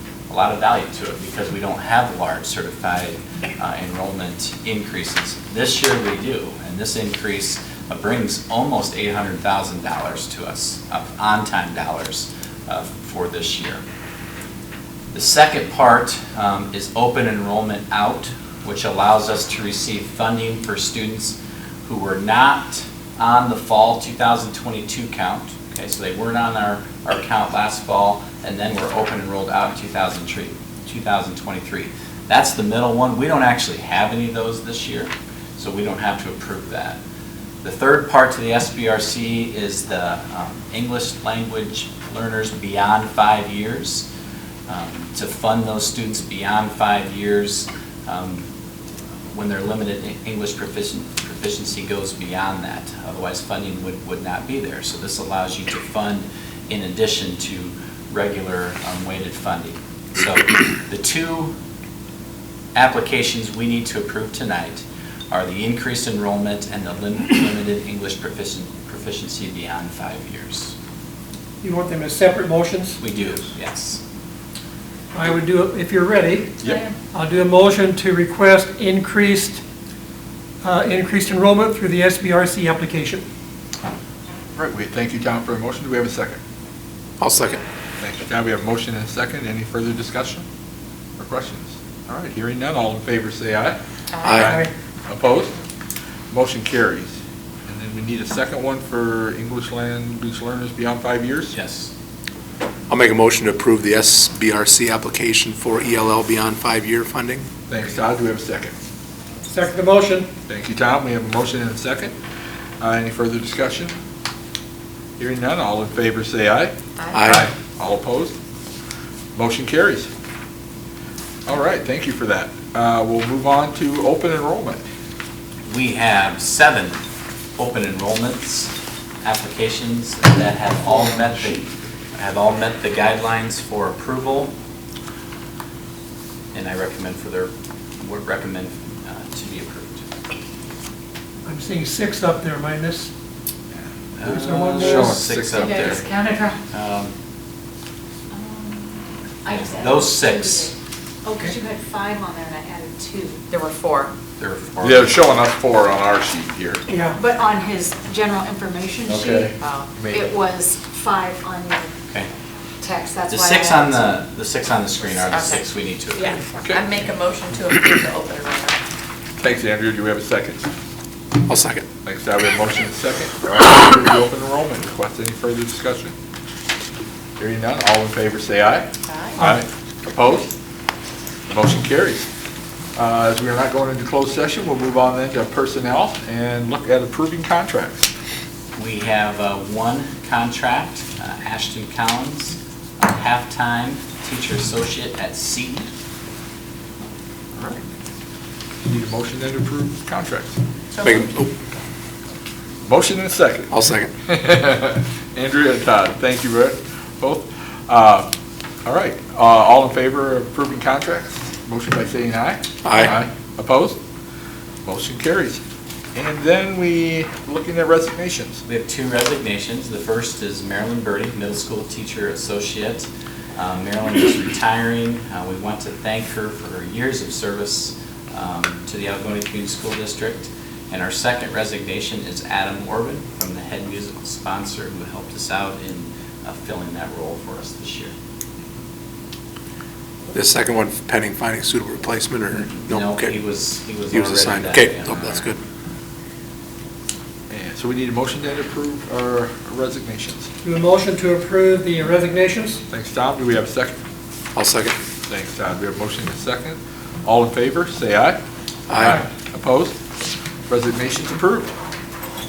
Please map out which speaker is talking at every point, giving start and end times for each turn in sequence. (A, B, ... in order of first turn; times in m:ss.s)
0:00.3-0:13.8 A
0:15.1-0:37.0 A
0:37.6-0:44.1 A
0:44.7-0:48.5 A
0:49.3-1:01.5 A
1:02.7-1:10.7 A
1:11.6-1:13.0 B
1:13.0-1:14.0 A
1:15.1-1:19.6 B
1:20.6-1:23.2 B
1:24.5-1:26.4 C
1:27.2-1:27.6 D
1:28.0-1:30.4 C
1:31.2-1:35.6 C
1:34.2-1:34.6 D
1:34.4-1:34.7 B
1:36.3-1:37.1 C
1:37.7-1:41.5 C
1:41.5-1:41.9 A
1:42.9-1:47.5 D
1:47.7-1:48.7 C
1:49.5-1:50.3 B
1:50.5-1:52.1 C
1:52.8-1:53.9 C
1:55.2-1:58.3 C
1:57.0-1:57.3 E
1:57.1-1:57.5 D
1:59.3-2:00.1 C
2:01.4-2:04.8 C
2:05.6-2:07.0 A
2:07.6-2:14.5 A
2:16.5-2:20.0 A
2:21.4-2:23.1 B
2:24.2-2:26.1 A
2:24.2-2:25.2 B
2:24.8-2:26.0 C
2:25.6-2:26.6 E
2:26.7-2:27.1 A
2:28.3-2:28.8 F
2:29.4-2:30.7 F
2:29.4-2:30.7 A
2:31.2-2:33.4 F
2:33.5-2:34.1 E
2:34.4-2:35.1 A
2:34.8-2:36.8 C
2:36.9-2:37.2 B
2:37.1-2:39.5 F
2:39.1-2:40.3 C
2:39.6-2:40.0 E
2:40.1-2:41.9 F
2:42.8-2:43.9 F
2:43.3-2:46.4 A
2:45.1-2:45.6 E
2:46.1-2:48.8 E
2:46.6-2:47.0 C
2:49.4-2:50.7 C
2:51.4-2:51.9 D
2:52.0-2:56.1 C
2:57.4-3:00.5 C
2:59.1-2:59.4 E
3:01.5-3:02.3 C
3:02.9-3:08.1 C
3:08.7-3:15.9 A
3:17.5-3:17.8 C
3:18.8-3:20.6 C
3:21.0-3:21.5 D
3:22.8-3:28.3 C
3:23.7-3:24.1 D
3:28.8-3:34.0 C
3:32.8-3:33.2 D
3:34.8-3:35.6 C
3:36.1-3:38.6 C
3:38.7-3:58.1 A
4:00.3-4:03.3 D
4:02.5-4:05.4 A
4:04.1-4:05.6 D
4:07.5-4:10.5 C
4:10.6-4:12.8 B
4:12.9-4:14.0 C
4:14.5-4:15.0 D
4:15.2-4:18.4 C
4:18.9-4:19.2 D
4:18.9-4:20.0 C
4:20.7-4:21.7 C